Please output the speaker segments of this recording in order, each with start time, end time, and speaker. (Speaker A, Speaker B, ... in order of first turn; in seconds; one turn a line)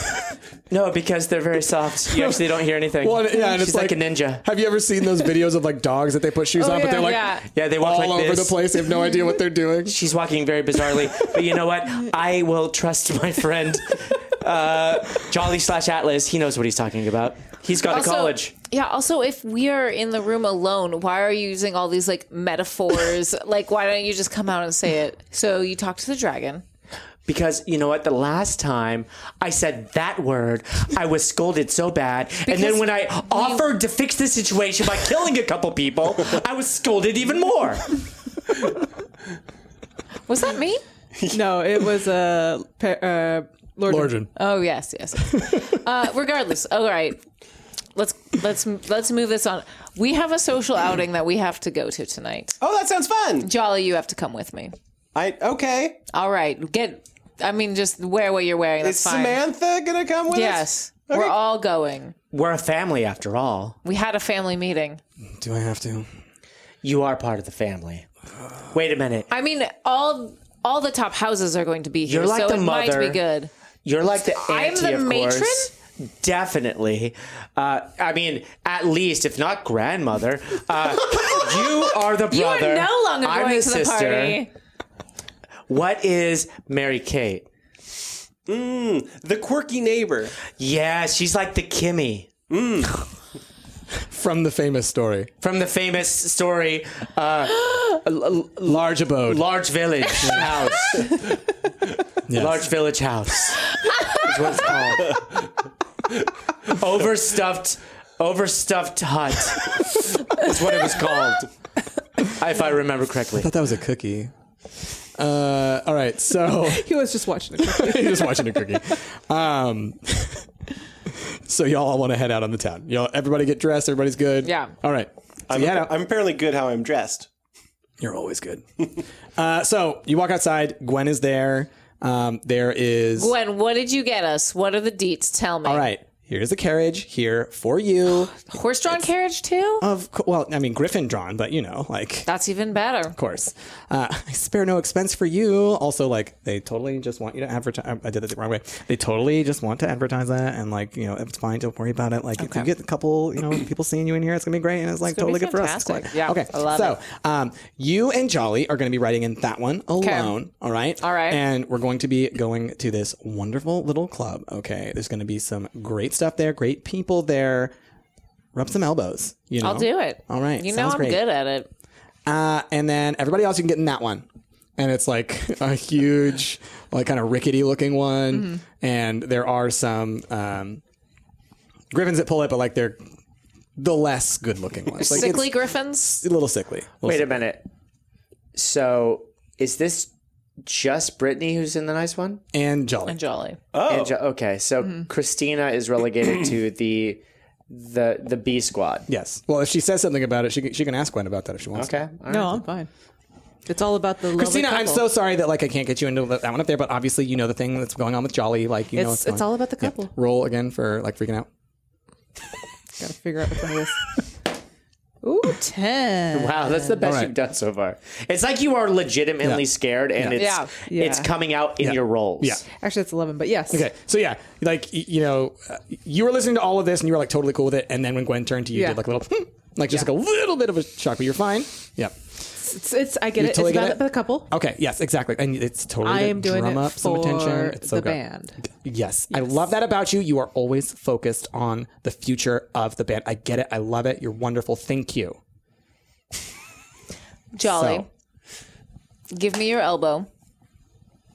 Speaker A: 0.7-4.4
Speaker B: 2.1-2.4
Speaker B: 3.0-9.9
Speaker C: 6.6-7.5
Speaker A: 7.5-8.7
Speaker A: 9.8-18.5
Speaker C: 17.9-26.6
Speaker A: 27.3-37.9
Speaker C: 32.5-33.7
Speaker C: 40.3-40.8
Speaker D: 41.1-41.4
Speaker E: 41.3-44.3
Speaker B: 43.9-44.3
Speaker C: 44.4-47.2
Speaker C: 47.9-52.6
Speaker D: 52.6-53.5
Speaker C: 53.4-54.7
Speaker D: 55.1-56.0
Speaker C: 56.1-59.4
Speaker D: 58.8-61.4
Speaker C: 60.3-62.1
Speaker A: 62.3-63.8
Speaker C: 63.9-65.0
Speaker B: 65.4-66.1
Speaker A: 66.8-68.1
Speaker A: 68.7-69.3
Speaker C: 69.3-73.5
Speaker A: 72.0-73.2
Speaker A: 73.8-84.5
Speaker C: 74.4-75.7
Speaker C: 82.3-84.5
Speaker A: 85.7-87.5
Speaker D: 88.5-90.4
Speaker A: 90.6-92.3
Speaker D: 92.5-93.0
Speaker B: 94.0-95.3
Speaker A: 95.4-101.3
Speaker B: 98.7-99.5
Speaker B: 102.3-102.7
Speaker A: 102.3-105.2
Speaker A: 106.7-111.5
Speaker A: 112.4-113.5
Speaker B: 113.4-114.3
Speaker B: 115.2-116.9
Speaker E: 116.6-118.9
Speaker B: 117.6-120.5
Speaker B: 121.4-126.0
Speaker C: 124.4-124.7
Speaker D: 125.5-127.3
Speaker B: 128.0-128.7
Speaker B: 129.4-133.3
Speaker C: 133.2-135.9
Speaker B: 135.6-139.0
Speaker C: 138.3-139.8
Speaker B: 139.8-142.3
Speaker C: 142.3-143.2
Speaker B: 143.1-167.7
Speaker C: 152.4-152.7
Speaker C: 155.1-156.9
Speaker C: 160.0-160.3
Speaker C: 161.0-161.4
Speaker B: 168.5-171.2
Speaker C: 169.6-171.7
Speaker B: 172.3-174.2
Speaker B: 174.8-180.8
Speaker B: 181.9-183.0
Speaker B: 183.8-187.3
Speaker C: 185.0-186.2
Speaker A: 187.0-187.6
Speaker A: 188.5-190.1
Speaker A: 190.6-192.4
Speaker B: 192.5-193.2
Speaker C: 193.1-193.6
Speaker D: 193.7-194.1
Speaker A: 193.9-199.1
Speaker B: 199.1-202.0
Speaker A: 201.8-202.6
Speaker E: 202.3-202.9
Speaker E: 203.7-205.1
Speaker B: 204.3-211.5
Speaker E: 208.9-210.1
Speaker E: 213.0-214.2
Speaker E: 215.2-217.0
Speaker A: 216.3-222.6
Speaker B: 217.0-217.3
Speaker C: 220.3-220.7
Speaker E: 220.8-221.3
Speaker B: 221.8-222.6
Speaker E: 222.7-223.9
Speaker B: 223.7-232.2
Speaker E: 228.7-229.0
Speaker E: 232.6-234.5
Speaker B: 233.4-238.2
Speaker E: 236.0-238.6
Speaker B: 238.8-245.4
Speaker C: 247.5-248.1
Speaker B: 247.6-248.1
Speaker C: 249.3-250.3